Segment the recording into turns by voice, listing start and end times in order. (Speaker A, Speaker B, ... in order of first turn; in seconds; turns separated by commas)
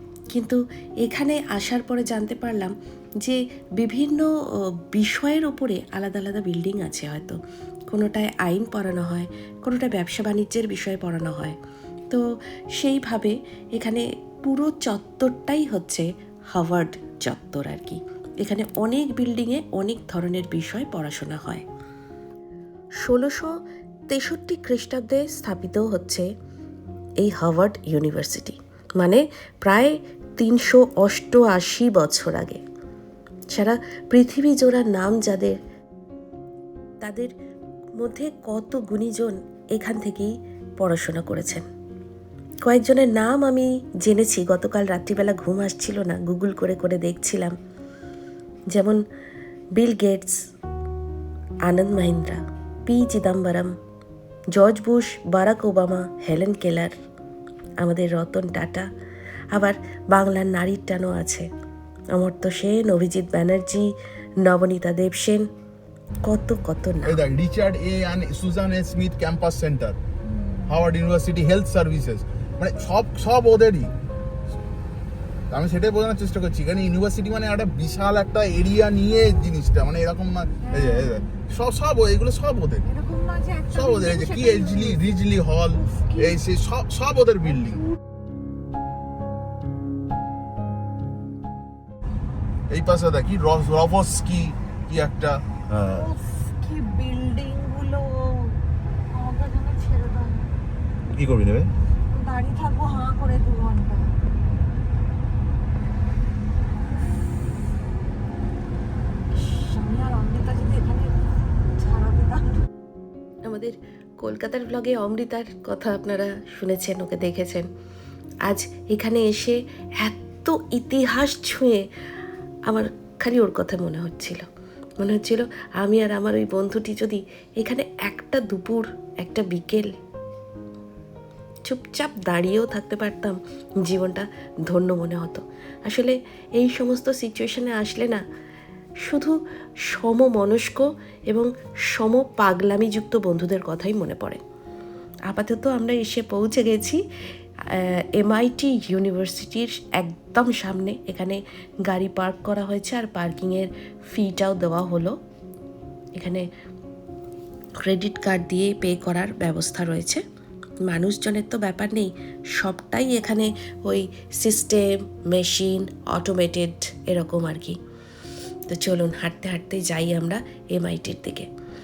Speaker A: 0.3-4.3, Speaker A: 4.9-7.4, Speaker A: 7.9-11.6, Speaker A: 12.8-21.6, Speaker A: 23.0-23.5, Speaker A: 24.1-26.3, Speaker A: 27.2-32.6, Speaker A: 33.5-35.6, Speaker A: 37.0-37.3, Speaker A: 38.0-41.7, Speaker A: 42.6-47.6, Speaker A: 48.7-49.0, Speaker A: 49.8-50.5, Speaker A: 51.7-53.7, Speaker A: 54.5-57.0, Speaker A: 57.8-58.9, Speaker A: 59.5-61.5, Speaker A: 62.1-63.9, Speaker A: 64.4-65.5, Speaker A: 66.2-67.2, Speaker B: 67.0-70.0, Speaker B: 70.7-73.9, Speaker B: 75.5-82.9, Speaker C: 80.7-81.0, Speaker C: 82.9-84.9, Speaker B: 83.7-87.8, Speaker B: 92.7-96.1, Speaker C: 95.9-98.6, Speaker C: 99.1-100.5, Speaker B: 101.1-101.7, Speaker C: 102.1-104.1, Speaker C: 109.3-111.1, Speaker C: 111.7-112.6, Speaker A: 113.5-117.7, Speaker A: 118.5-121.8, Speaker A: 122.7-124.5, Speaker A: 125.0-129.9, Speaker A: 131.7-138.2, Speaker A: 139.0-144.4, Speaker A: 145.3-147.0, Speaker A: 147.7-155.2, Speaker A: 156.2-156.5, Speaker A: 157.8-160.2, Speaker A: 160.9-167.8, Speaker A: 168.7-171.5